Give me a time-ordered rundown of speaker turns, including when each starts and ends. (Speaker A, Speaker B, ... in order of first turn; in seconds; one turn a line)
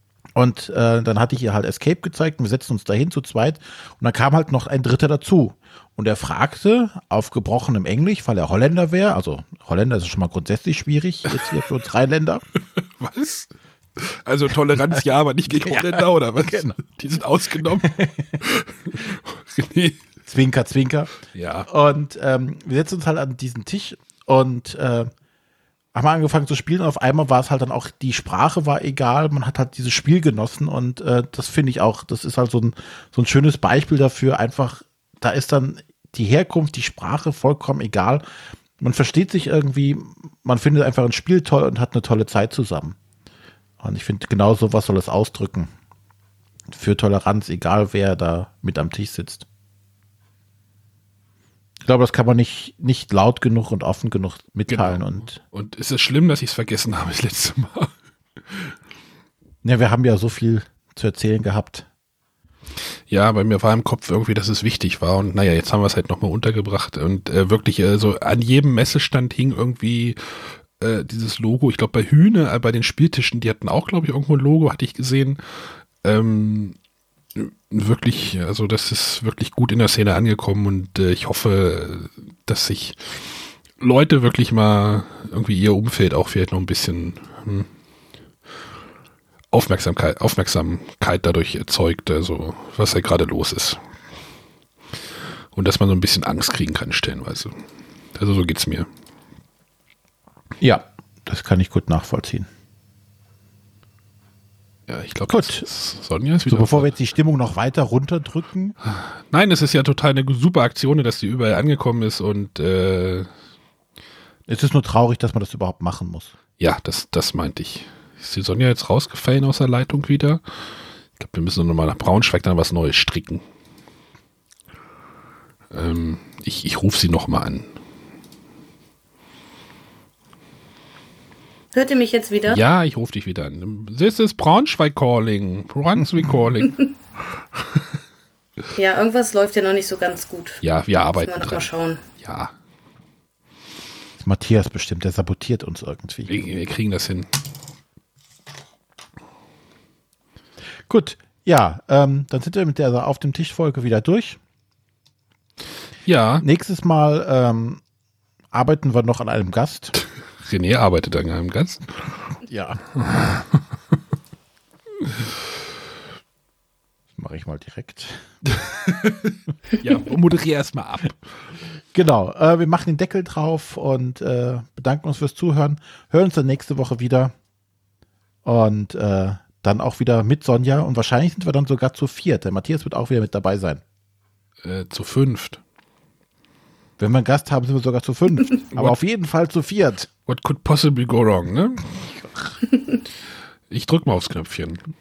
Speaker A: 0.3-12.4
Speaker B: 11.3-11.6
Speaker B: 12.8-20.1
Speaker A: 14.9-16.8
Speaker A: 17.8-18.3
Speaker A: 20.3-21.1
Speaker B: 21.3-21.7
Speaker A: 21.6-25.1
Speaker A: 25.9-38.2
Speaker A: 38.8-43.0
Speaker A: 43.8-45.7
Speaker A: 46.7-49.5
Speaker A: 51.9-55.4
Speaker B: 54.7-57.9
Speaker B: 58.5-58.7
Speaker A: 59.6-61.9
Speaker B: 63.1-75.4
Speaker B: 76.0-76.8
Speaker B: 77.3-87.7
Speaker B: 89.5-93.8
Speaker B: 95.5-97.6
Speaker B: 98.2-98.9
Speaker A: 100.6-102.5
Speaker B: 104.9-106.9
Speaker A: 105.3-105.7
Speaker A: 106.5-108.8
Speaker B: 108.8-113.3
Speaker A: 114.5-116.3
Speaker B: 116.6-120.4
Speaker B: 121.2-123.4
Speaker B: 125.7-127.7
Speaker C: 131.7-132.6
Speaker B: 132.5-137.0
Speaker C: 138.8-142.0
Speaker B: 140.6-141.7
Speaker B: 142.2-142.5
Speaker A: 144.2-146.3
Speaker B: 146.3-147.3
Speaker A: 150.9-154.4
Speaker B: 156.1-156.4
Speaker A: 156.4-157.8
Speaker A: 158.5-159.9
Speaker B: 160.4-162.2
Speaker A: 162.4-162.8
Speaker B: 163.0-163.6
Speaker A: 167.2-168.2
Speaker B: 168.5-171.2
Speaker A: 171.9-177.3
Speaker A: 178.4-183.8
Speaker B: 184.6-185.6
Speaker A: 187.0-190.1
Speaker B: 190.3-192.1
Speaker B: 193.7-194.8